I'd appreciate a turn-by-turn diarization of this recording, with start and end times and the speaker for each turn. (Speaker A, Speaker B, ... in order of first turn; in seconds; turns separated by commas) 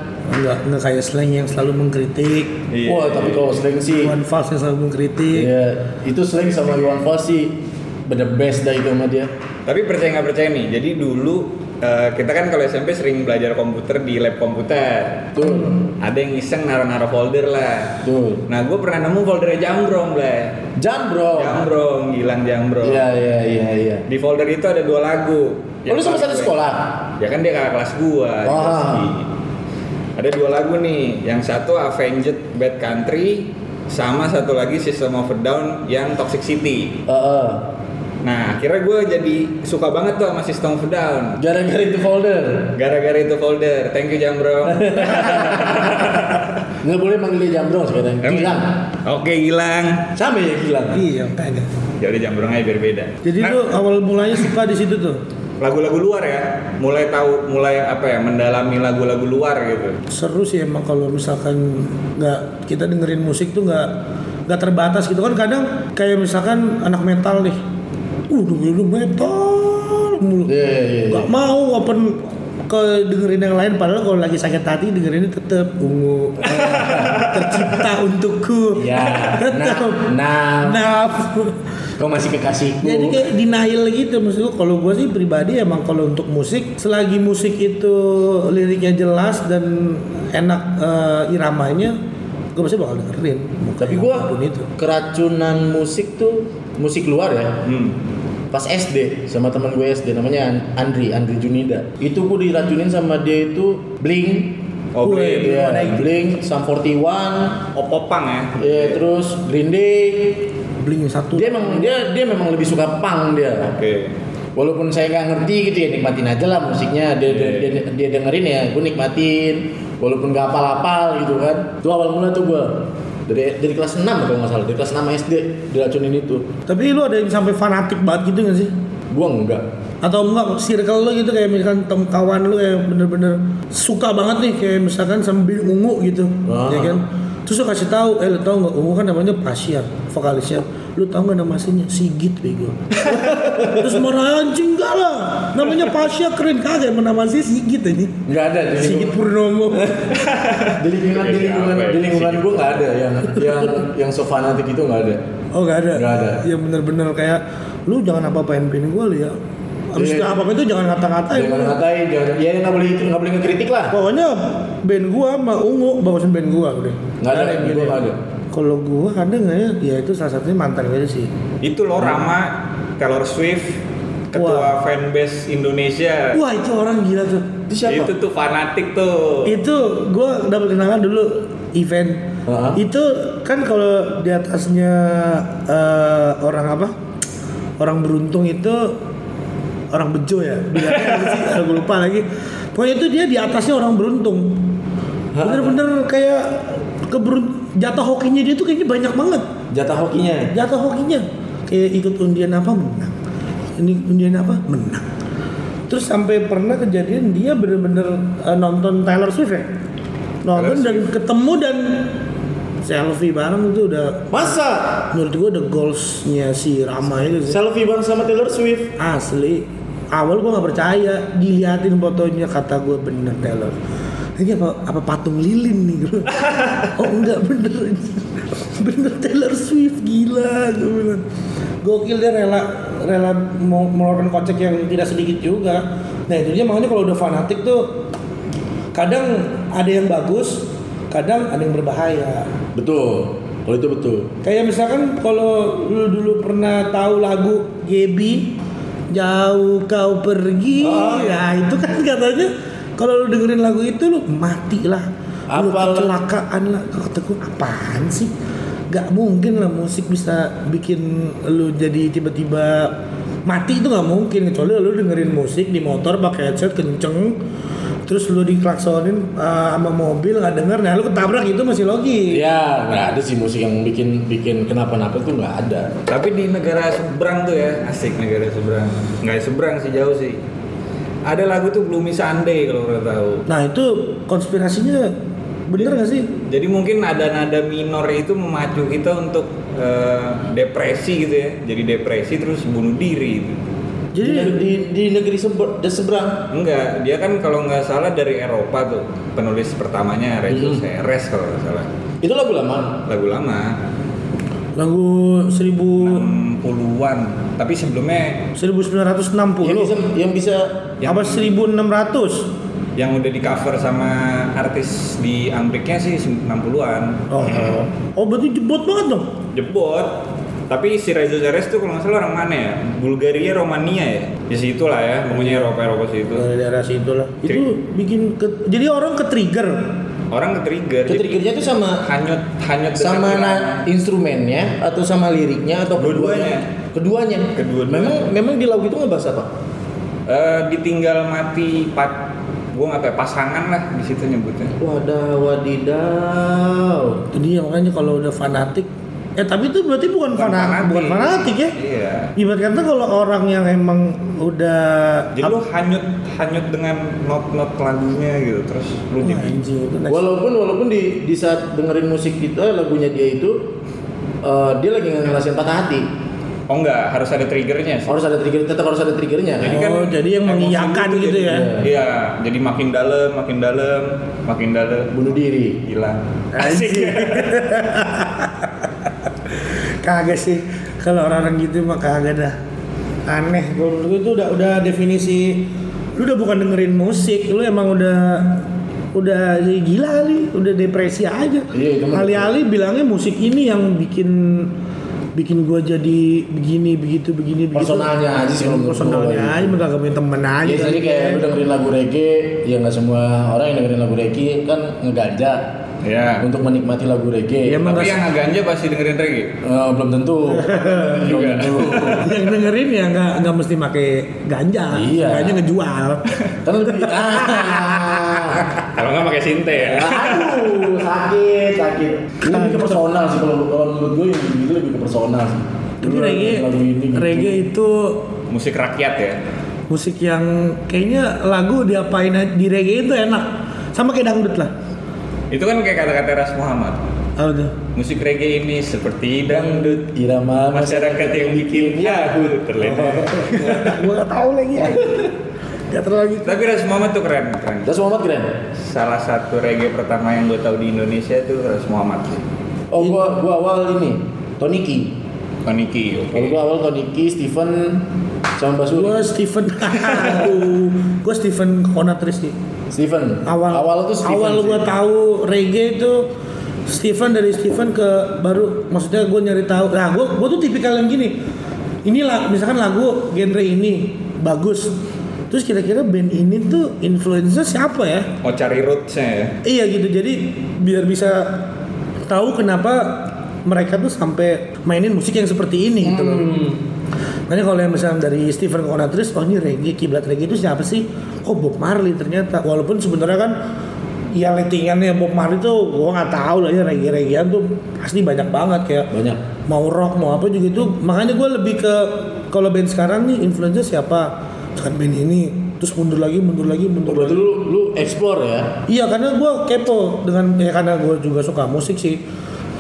Speaker A: 0.3-2.6, Speaker B: 2.7-3.6, Speaker C: 2.9-4.2, Speaker A: 4.0-5.5, Speaker C: 5.3-9.3, Speaker B: 9.7-20.6, Speaker C: 15.4-15.8, Speaker C: 18.0-18.4, Speaker C: 20.8-21.7, Speaker B: 21.4-23.0, Speaker C: 22.8-24.0, Speaker B: 24.1-26.5, Speaker C: 25.9-26.9, Speaker B: 27.2-29.3, Speaker C: 28.4-29.1, Speaker B: 30.2-36.9, Speaker C: 37.1-37.7, Speaker B: 38.2-41.4, Speaker C: 41.4-42.7, Speaker B: 42.8-46.6, Speaker C: 44.7-46.3, Speaker C: 46.8-48.7, Speaker B: 48.2-50.1, Speaker C: 50.1-51.0, Speaker A: 50.9-51.7, Speaker B: 52.0-53.6, Speaker A: 53.2-55.2, Speaker B: 55.6-60.0, Speaker A: 60.1-63.9, Speaker A: 64.5-67.6, Speaker A: 68.3-70.5, Speaker C: 70.5-71.3, Speaker A: 71.1-80.1, Speaker C: 76.5-77.2, Speaker B: 76.8-77.4, Speaker C: 78.8-80.8, Speaker A: 80.6-81.6, Speaker C: 82.0-83.3, Speaker A: 82.8-92.0, Speaker A: 92.5-94.7, Speaker C: 93.8-97.6, Speaker B: 97.6-98.0, Speaker C: 98.5-104.6, Speaker B: 105.0-105.9, Speaker A: 105.0-106.1, Speaker C: 105.4-107.6, Speaker B: 107.7-109.0, Speaker C: 108.6-110.5, Speaker A: 110.8-111.9, Speaker C: 111.3-113.8, Speaker B: 113.7-114.2, Speaker C: 114.6-126.5, Speaker B: 117.3-117.8, Speaker A: 126.7-128.7, Speaker C: 129.1-129.7, Speaker A: 130.0-148.2, Speaker C: 136.5-137.0, Speaker C: 143.1-143.9, Speaker C: 148.3-150.1, Speaker A: 148.8-150.1, Speaker B: 150.1-152.7, Speaker C: 150.8-155.2, Speaker A: 155.5-159.4, Speaker C: 155.9-156.4, Speaker A: 159.9-161.8, Speaker C: 160.0-160.4, Speaker C: 161.3-163.9, Speaker A: 163.9-168.0, Speaker C: 167.2-168.2, Speaker A: 168.5-171.3, Speaker B: 171.6-173.8, Speaker B: 174.3-176.4, Speaker A: 174.3-174.7, Speaker A: 176.3-177.5, Speaker C: 177.7-178.1, Speaker B: 177.9-179.5, Speaker A: 179.5-186.9, Speaker C: 182.5-182.8, Speaker A: 187.8-189.0, Speaker A: 189.9-194.7, Speaker C: 195.3-195.8, Speaker A: 195.4-199.5, Speaker C: 199.7-200.5, Speaker A: 200.5-203.2, Speaker A: 203.8-205.1, Speaker A: 205.9-209.7, Speaker A: 210.4-212.1, Speaker B: 210.6-211.1, Speaker A: 212.8-214.6, Speaker C: 214.3-215.1, Speaker A: 215.1-217.6, Speaker C: 217.5-218.9, Speaker A: 219.0-223.8, Speaker A: 224.4-231.2, Speaker A: 231.8-238.0, Speaker A: 238.9-242.5, Speaker C: 242.8-244.3, Speaker A: 244.4-248.5, Speaker A: 249.1-258.3, Speaker C: 250.8-251.5, Speaker C: 255.5-256.1, Speaker A: 258.9-262.9, Speaker A: 263.5-267.4, Speaker A: 268.1-272.4, Speaker C: 272.3-276.0, Speaker B: 276.1-280.4, Speaker B: 281.3-283.4, Speaker A: 283.5-285.1, Speaker A: 285.7-286.3, Speaker B: 286.5-293.6, Speaker A: 294.1-294.6, Speaker C: 294.2-296.4, Speaker B: 296.5-301.9, Speaker C: 300.5-300.8, Speaker C: 302.2-303.0, Speaker B: 303.1-303.8, Speaker A: 304.8-306.3, Speaker B: 306.0-308.5, Speaker A: 308.6-310.0, Speaker C: 309.6-310.8, Speaker B: 311.0-311.5, Speaker A: 311.0-312.5, Speaker B: 313.0-317.8, Speaker A: 317.3-319.3, Speaker B: 319.5-320.1, Speaker B: 320.7-326.5, Speaker A: 326.4-329.9, Speaker B: 330.3-331.4, Speaker C: 331.1-332.1, Speaker B: 332.0-333.9, Speaker C: 332.9-339.5, Speaker B: 336.0-336.6, Speaker B: 337.6-338.3, Speaker B: 340.3-342.2, Speaker B: 342.7-344.8, Speaker C: 344.8-347.2, Speaker A: 347.3-351.7, Speaker B: 350.3-352.3, Speaker A: 352.4-355.5, Speaker B: 355.4-359.6, Speaker A: 359.2-360.3, Speaker C: 360.1-363.6, Speaker C: 364.4-366.1, Speaker B: 366.7-368.2, Speaker C: 368.1-369.8, Speaker B: 369.6-375.3, Speaker A: 369.7-371.7, Speaker C: 371.4-371.9, Speaker C: 375.1-375.8, Speaker B: 375.9-377.5, Speaker A: 376.6-378.7, Speaker C: 376.6-377.2, Speaker A: 380.0-382.6, Speaker A: 383.3-394.7, Speaker C: 391.7-392.5, Speaker A: 395.4-401.5, Speaker C: 397.8-399.8, Speaker C: 400.6-405.6, Speaker B: 406.0-406.5, Speaker C: 406.4-408.0, Speaker A: 407.6-408.2, Speaker B: 407.8-409.6, Speaker C: 409.6-412.4, Speaker A: 410.5-418.4, Speaker B: 411.2-412.2, Speaker C: 414.9-415.6, Speaker C: 416.6-418.7, Speaker B: 418.8-420.9, Speaker C: 419.7-427.7, Speaker A: 422.4-423.0, Speaker A: 426.0-428.2, Speaker B: 428.5-429.4, Speaker A: 429.9-434.7, Speaker B: 435.5-437.0, Speaker A: 437.4-437.7, Speaker B: 437.9-440.0, Speaker C: 439.5-442.7, Speaker B: 440.7-443.7, Speaker A: 442.8-445.3, Speaker C: 443.5-444.0, Speaker A: 445.9-446.6, Speaker B: 446.4-447.9, Speaker C: 447.9-448.6, Speaker B: 448.8-452.4, Speaker C: 452.9-455.2, Speaker B: 455.6-456.6, Speaker C: 456.3-458.1, Speaker C: 458.6-459.3, Speaker A: 458.9-462.6, Speaker C: 462.9-464.9, Speaker A: 463.4-466.3, Speaker A: 466.9-471.4, Speaker A: 472.1-475.0, Speaker A: 475.5-478.3, Speaker B: 478.4-479.6, Speaker A: 479.6-481.6, Speaker A: 482.3-486.6, Speaker C: 486.0-486.8, Speaker A: 487.5-493.6, Speaker A: 494.3-499.1, Speaker C: 499.1-499.4, Speaker A: 499.7-507.4, Speaker C: 507.1-508.7, Speaker A: 508.9-512.2